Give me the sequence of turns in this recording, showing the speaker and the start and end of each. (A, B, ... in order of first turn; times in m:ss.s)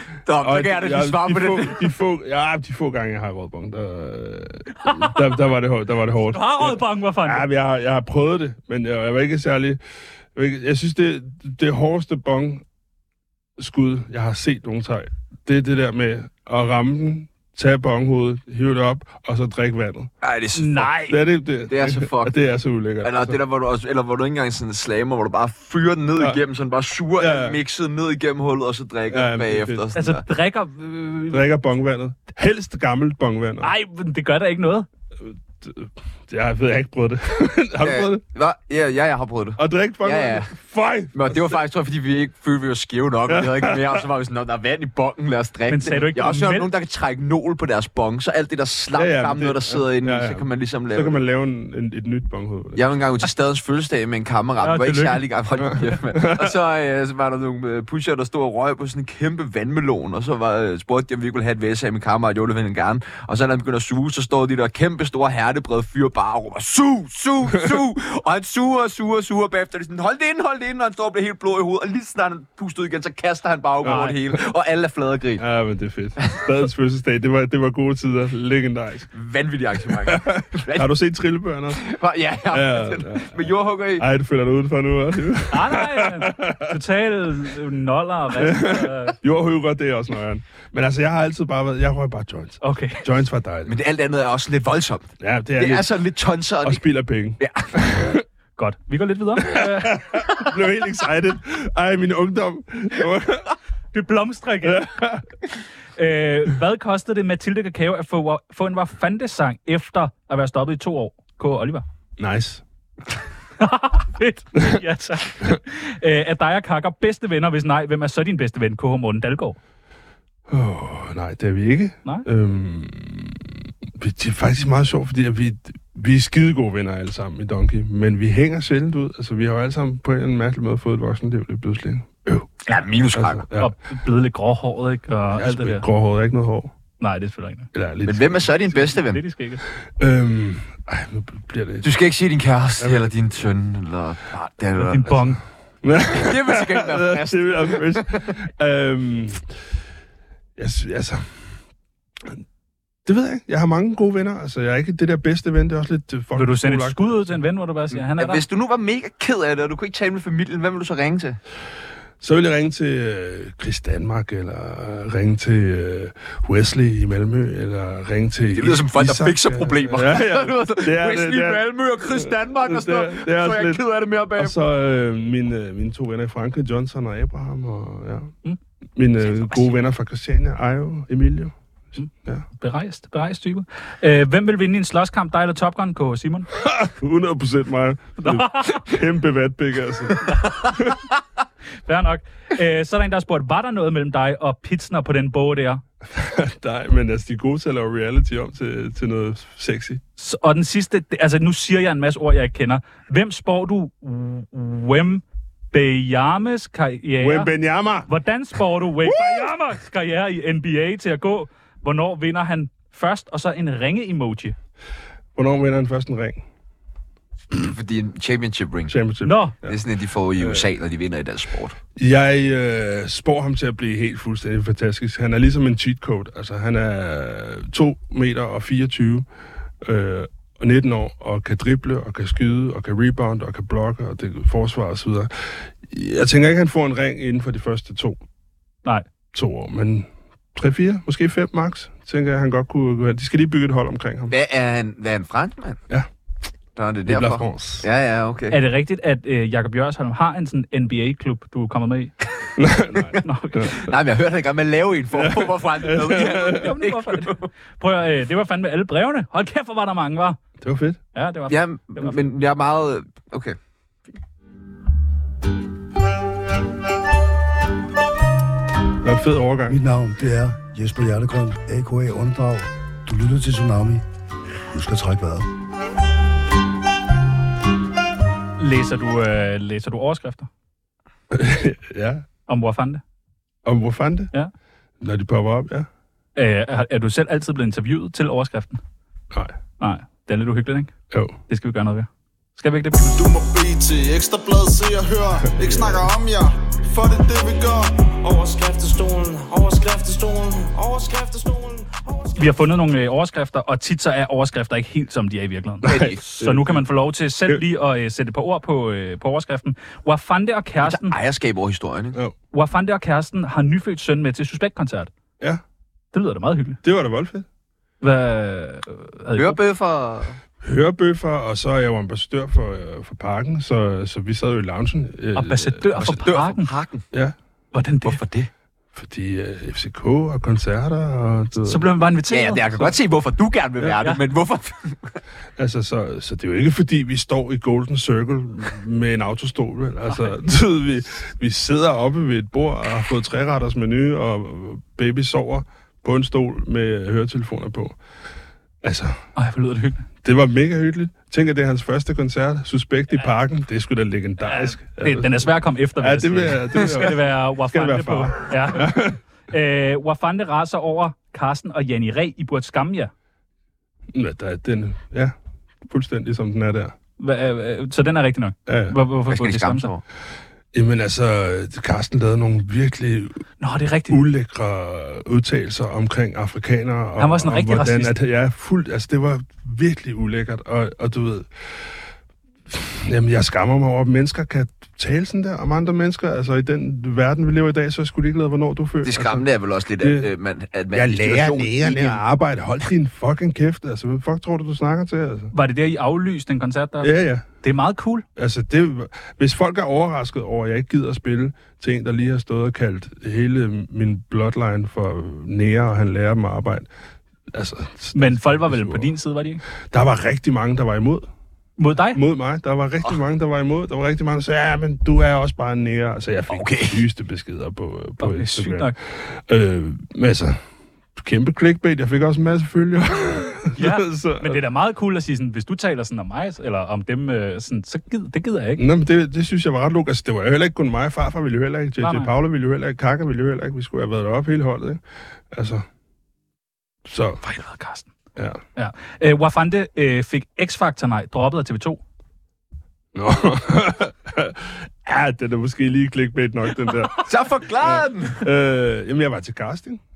0:00.2-0:01.9 A
0:00.4-0:09.8 B
0:04.8-0:05.2 C
0:06.3-0:07.4 C
0:10.4-0:12.6 B
0:13.6-0:20.1 B
0:20.2-0:20.9 A
0:20.6-0:21.2 C
0:21.0-0:23.4 B
0:21.7-0:22.4 A
0:23.0-0:30.2 A
0:27.2-0:27.6 B
0:29.1-0:29.9 B
0:30.0-0:31.4 C
0:31.3-0:33.7 B
0:33.6-0:34.9 C
0:35.3-0:38.2 B
0:37.8-0:40.5 A
0:39.6-0:41.6 B
0:41.1-0:51.2 A
0:43.3-0:44.0 B
0:45.7-0:46.7 C
0:49.0-0:52.8 B
0:52.8-1:15.4 A
0:54.6-0:55.3 C
0:55.7-0:56.5 B
1:13.8-1:14.2 B
1:13.8-1:14.2 C
1:15.4-1:19.1 B
1:19.1-1:20.9 A
1:19.9-1:21.8 B
1:21.8-1:24.0 A
1:22.5-1:26.7 B
1:25.5-1:29.2 C
1:28.4-1:33.7 B
1:32.6-1:33.0 C
1:33.7-1:36.8 A
1:35.2-1:35.9 B
1:36.6-1:38.2 B
1:37.4-1:37.9 A
1:38.6-1:40.5 C
1:39.4-1:43.5 B
1:43.9-1:44.9 C
1:44.6-1:45.2 B
1:46.0-1:51.8 C
1:52.2-1:52.6 B
1:53.6-1:59.6 C
2:00.5-2:12.5 B
2:12.6-2:13.4 A
2:13.1-2:13.7 B
2:13.6-2:15.8 C
2:15.4-2:16.7 B
2:17.0-2:17.7 C
2:17.7-2:19.0 B
2:18.0-2:19.2 A
2:18.9-2:19.6 C
2:20.0-2:21.9 B
2:21.8-2:25.3 A
2:22.8-2:23.1 B
2:24.8-2:25.4 C
2:25.8-2:29.5 B
2:26.1-2:28.3 A
2:30.6-2:31.5 B
2:33.1-2:37.2 B
2:36.3-2:38.4 C
2:38.2-2:41.4 A
2:42.2-2:53.8 B
2:48.6-2:54.6 A
2:54.4-2:58.3 B
2:59.0-3:01.6 B
3:02.2-3:02.5 B
3:02.6-3:06.5 C
3:06.6-3:10.2 B
3:08.2-3:08.9 C
3:10.2-3:11.0 C
3:11.9-3:15.8 C
3:16.1-3:20.0 B
3:20.2-3:27.5 C
3:27.2-3:28.1 B
3:28.1-3:34.6 C
3:29.0-3:29.5 B
3:35.4-3:36.4 B
3:37.5-3:38.9 A
3:38.9-3:39.8 B
3:39.2-3:39.6 C
3:39.6-3:41.8 A
3:40.4-3:40.7 B
3:42.0-3:49.3 B
3:49.8-3:58.2 B
3:59.3-4:04.3 B
4:04.3-4:05.8 A
4:06.8-4:08.6 A
4:07.1-4:07.9 B
4:08.5-4:12.1 C
4:12.6-4:13.8 B
4:13.2-4:13.9 C
4:13.7-4:17.5 A
4:15.1-4:16.7 B
4:16.1-4:20.4 C
4:20.6-4:21.0 B
4:21.2-4:22.3 C
4:21.5-4:23.6 A
4:29.0-4:29.8 B
4:29.7-4:34.0 D
4:34.7-4:35.5 D
4:38.6-4:40.5 C
4:41.3-4:42.2 B
4:42.5-4:43.0 C
4:43.6-4:44.3 B
4:45.0-4:45.9 B
4:46.4-4:48.8 C
4:49.8-4:51.0 C
4:51.1-4:51.4 B
4:51.5-4:53.1 C
4:53.1-5:02.6 E
4:55.5-4:56.0 B
5:02.4-5:11.2 C
5:05.8-5:06.8 B
5:05.9-5:06.2 A
5:10.8-5:12.2 A
5:12.5-5:15.1 C
5:16.1-5:16.8 C
5:16.8-5:17.5 B
5:18.0-5:19.6 C
5:19.4-5:20.4 A
5:20.6-5:26.0 B
5:25.4-5:26.7 C
5:26.0-5:27.0 A
5:27.7-5:28.2 C
5:28.0-5:28.5 A
5:29.0-5:31.8 B
5:31.7-5:33.0 C
5:32.3-5:35.2 A
5:35.6-5:48.0 B
5:48.8-5:49.2 B
5:49.4-5:50.0 C
5:50.2-5:59.2 B
5:54.4-6:03.1 C
6:04.1-6:05.3 B
6:05.9-6:06.9 B
6:07.2-6:09.9 C
6:08.7-6:09.0 B
6:09.3-6:10.0 A
6:10.7-6:13.4 B
6:13.6-6:14.2 C
6:14.1-6:21.7 B
6:17.2-6:18.2 C
6:22.7-6:29.5 B
6:29.0-6:32.2 A
6:30.0-6:30.3 B
6:30.9-6:35.5 B
6:35.5-6:38.2 C
6:37.0-6:37.5 B
6:38.4-6:46.9 B
6:47.5-6:49.1 B
6:48.2-6:49.6 C
6:49.9-6:51.3 B
6:51.8-6:52.2 C
6:52.1-7:00.6 B
6:56.5-6:57.0 A
6:58.2-6:58.9 C
7:01.2-7:04.6 B
7:03.8-7:08.8 C
7:08.8-7:15.0 B
7:12.0-7:12.3 C
7:15.5-7:15.8 B
7:17.1-7:17.4 B
7:17.4-7:18.1 C
7:18.8-7:22.0 C
7:23.2-7:30.0 B
7:27.3-7:28.4 A